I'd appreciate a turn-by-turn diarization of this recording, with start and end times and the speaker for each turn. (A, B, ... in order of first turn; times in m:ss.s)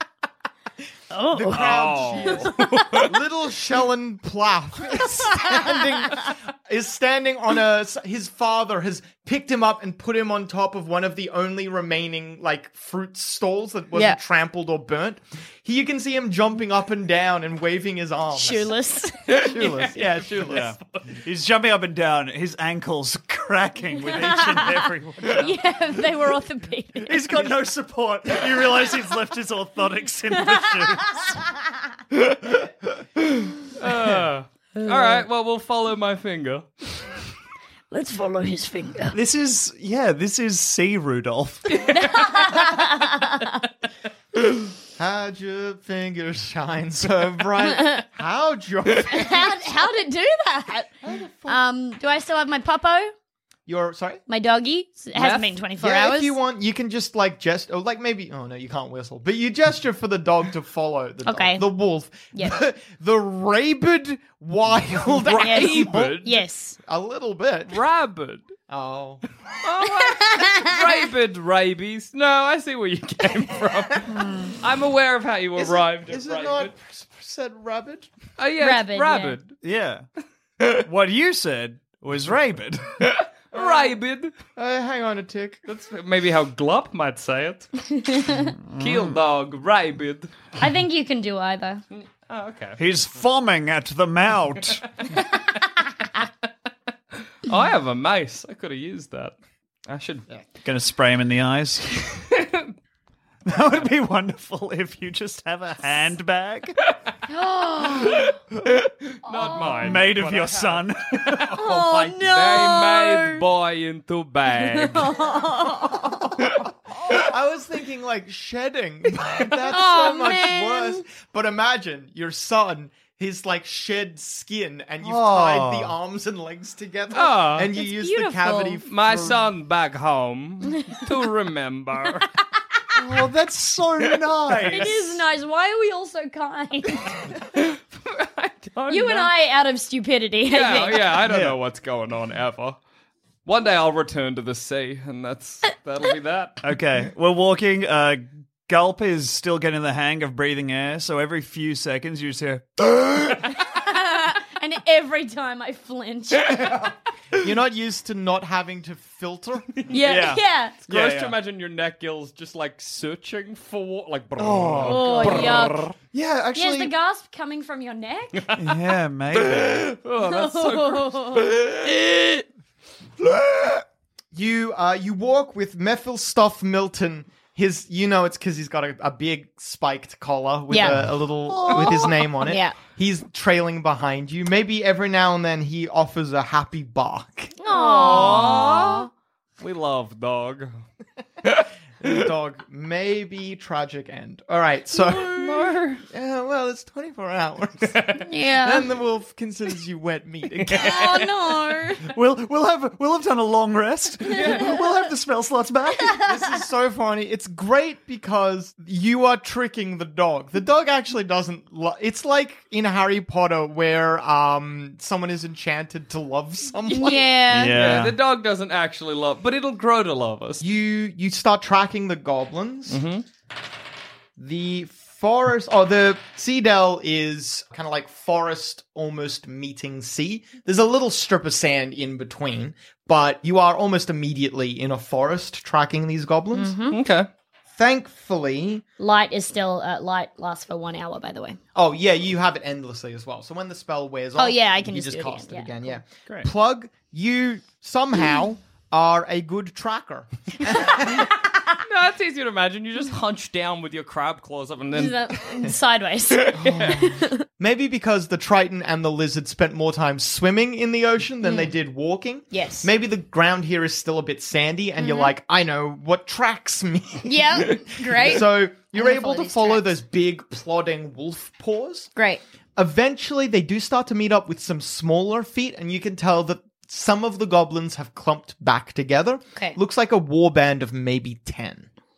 0:01.1-0:02.5 A
0:01.3-0:18.7 B
0:01.5-0:03.1 C
0:18.3-0:19.5 D
0:19.3-0:21.0 C
0:19.3-0:20.7 B
0:20.5-0:25.6 E
0:24.2-0:24.8 D
0:25.4-0:27.5 D
0:27.0-0:31.4 E
0:33.8-0:37.1 C
0:33.9-0:34.2 E
0:37.9-0:39.2 A
0:39.1-0:41.9 E
0:42.0-0:43.5 D
0:45.0-0:49.7 B
0:49.1-0:50.9 D
0:51.0-0:51.6 B
0:51.5-0:53.1 D
0:53.7-0:54.2 B
0:54.3-0:56.4 D
0:55.2-1:06.3 B
1:01.3-1:01.6 D
1:05.2-1:06.4 C
1:05.4-1:06.8 D
1:06.8-1:07.8 B
1:07.7-1:08.4 C
1:08.7-1:09.2 B
1:09.6-1:16.7 C
1:10.2-1:10.7 D
1:15.6-1:18.1 B
1:18.4-1:19.6 C
1:18.6-1:19.4 D
1:19.6-1:20.0 E
1:20.7-1:23.0 E
1:23.0-1:24.3 C
1:24.6-1:25.6 B
1:25.7-1:27.7 C
1:27.9-1:28.5 D
1:28.4-1:29.2 E
1:28.8-1:30.3 C
1:30.6-1:31.8 D
1:31.9-1:32.8 C
1:32.8-1:34.9 E
1:37.4-1:39.4 C
1:39.9-1:40.3 C
1:40.6-1:42.2 E
1:42.3-1:42.7 C
1:43.4-1:46.8 E
1:47.3-1:48.3 D
1:49.2-1:55.2 C
1:49.3-1:49.7 D
1:49.7-1:51.7 E
1:51.5-1:53.4 D
1:54.8-1:56.0 D
1:57.1-2:09.5 B
1:59.7-2:00.8 D
2:05.0-2:05.9 E
2:07.1-2:07.7 C
2:07.7-2:08.8 D
2:08.8-2:12.3 C
2:13.0-2:15.2 E
2:14.7-2:17.2 D
2:17.6-2:19.3 C
2:18.9-2:21.2 D
2:20.5-2:22.8 C
2:21.2-2:21.6 E
2:23.5-2:26.6 C
2:26.6-2:33.5 E
2:33.5-2:36.8 D
2:37.3-2:39.7 B
2:39.9-2:40.8 D
2:40.0-2:41.4 E
2:40.9-2:45.9 C
2:44.4-2:46.9 E
2:44.8-2:45.8 D
2:46.6-2:48.4 D
2:48.4-2:48.8 C
2:48.5-2:49.9 E
2:49.4-2:51.8 C
2:50.2-2:51.6 D
2:54.3-3:07.5 B
3:00.7-3:01.0 D
3:00.8-3:02.1 E
3:02.4-3:02.8 D
3:07.6-3:08.7 D
3:07.7-3:09.1 C
3:09.6-3:10.8 C
3:12.0-3:21.3 B
3:15.0-3:16.0 C
3:18.2-3:18.9 D
3:20.7-3:22.0 D
3:22.0-3:26.2 E
3:24.3-3:24.7 C
3:26.2-3:37.3 B
3:36.9-3:37.8 D
3:37.5-3:38.2 E
3:37.7-3:40.6 C
3:40.6-3:43.0 B
3:42.9-3:43.2 C
3:44.4-3:56.7 B
3:56.5-3:57.0 D
3:56.9-3:57.3 C
3:57.7-3:58.8 B
3:59.0-4:01.6 D
4:01.8-4:11.4 B
4:04.4-4:06.0 D
4:11.8-4:15.3 C
4:15.0-4:17.4 D
4:16.6-4:32.1 B
4:21.4-4:21.7 D
4:22.5-4:22.9 D
4:25.0-4:25.3 D
4:27.2-4:29.9 D
4:32.2-4:32.4 D
4:32.8-4:41.9 B